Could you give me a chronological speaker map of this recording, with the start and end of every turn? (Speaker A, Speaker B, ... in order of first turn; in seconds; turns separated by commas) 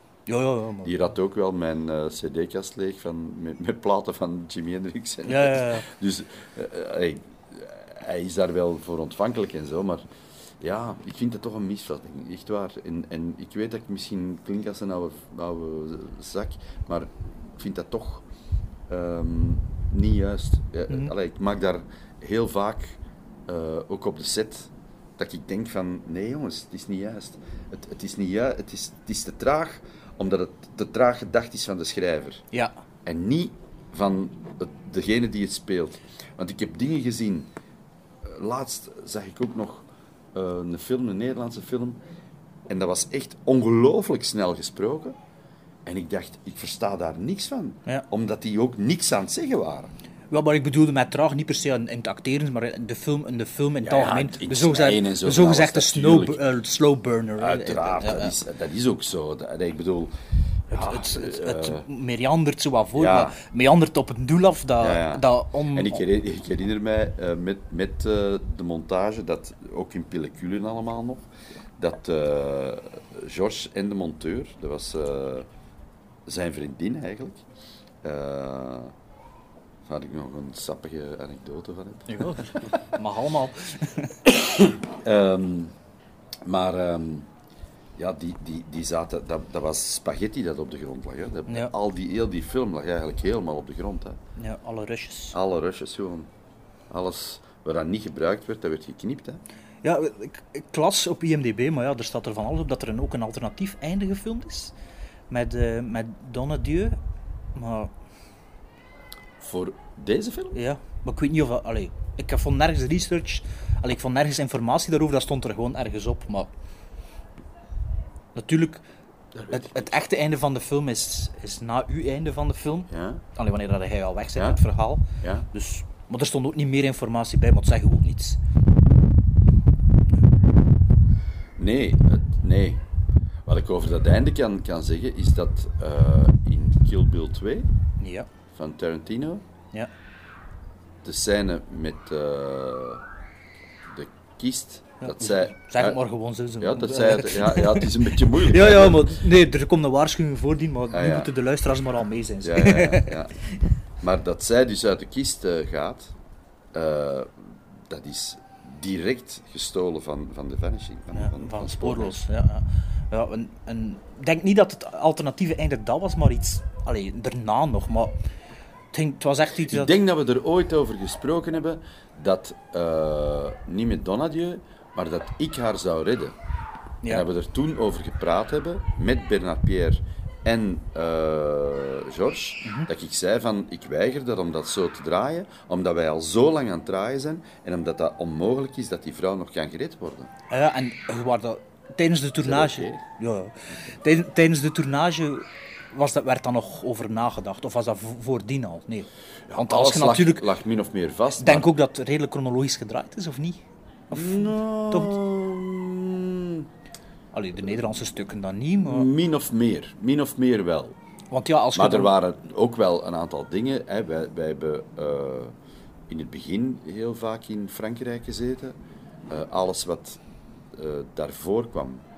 Speaker A: 0.3-0.9, Speaker B: 0.8-10.0, Speaker A: 5.3-5.9, Speaker B: 10.6-18.3, Speaker B: 18.9-32.4, Speaker B: 33.0-37.5, Speaker B: 38.2-42.0, Speaker B: 42.7-45.2, Speaker B: 45.9-49.9, Speaker A: 50.3-58.4, Speaker B: 53.8-56.5, Speaker B: 57.4-60.1, Speaker B: 60.7-61.9, Speaker A: 60.7-66.0, Speaker B: 63.0-63.4, Speaker B: 64.8-71.3, Speaker B: 71.8-75.5, Speaker B: 76.3-77.4, Speaker B: 78.0-78.9, Speaker B: 79.9-82.8, Speaker A: 82.1-84.1, Speaker B: 84.2-85.7, Speaker B: 86.5-87.3, Speaker B: 88.0-94.2, Speaker A: 94.4-95.4, Speaker B: 95.3-96.3, Speaker B: 96.9-99.4, Speaker A: 99.8-104.7, Speaker A: 105.3-107.0, Speaker A: 107.5-107.9, Speaker B: 109.4-110.6, Speaker A: 110.5-116.5, Speaker A: 118.3-118.8, Speaker B: 119.3-120.0, Speaker A: 119.5-128.4, Speaker B: 122.9-123.2, Speaker B: 125.2-125.5, Speaker B: 131.6-132.8, Speaker B: 133.5-137.7, Speaker A: 138.0-138.3, Speaker B: 138.5-139.4, Speaker B: 141.0-143.0, Speaker B: 143.9-146.0, Speaker A: 145.0-153.6, Speaker B: 146.6-149.2, Speaker B: 150.9-151.3, Speaker B: 152.4-153.4, Speaker B: 154.0-156.1, Speaker B: 156.7-162.2, Speaker A: 161.1-168.2, Speaker A: 168.9-169.9, Speaker B: 169.6-176.4, Speaker B: 177.1-190.3, Speaker A: 190.5-200.4, Speaker B: 192.4-193.0, Speaker B: 199.5-201.7, Speaker A: 201.4-205.2, Speaker B: 204.1-206.7, Speaker A: 207.3-209.1, Speaker B: 207.6-208.1, Speaker B: 208.8-211.0, Speaker A: 211.3-212.1, Speaker B: 211.8-215.6, Speaker B: 216.1-218.8, Speaker B: 219.3-220.2, Speaker B: 220.7-222.0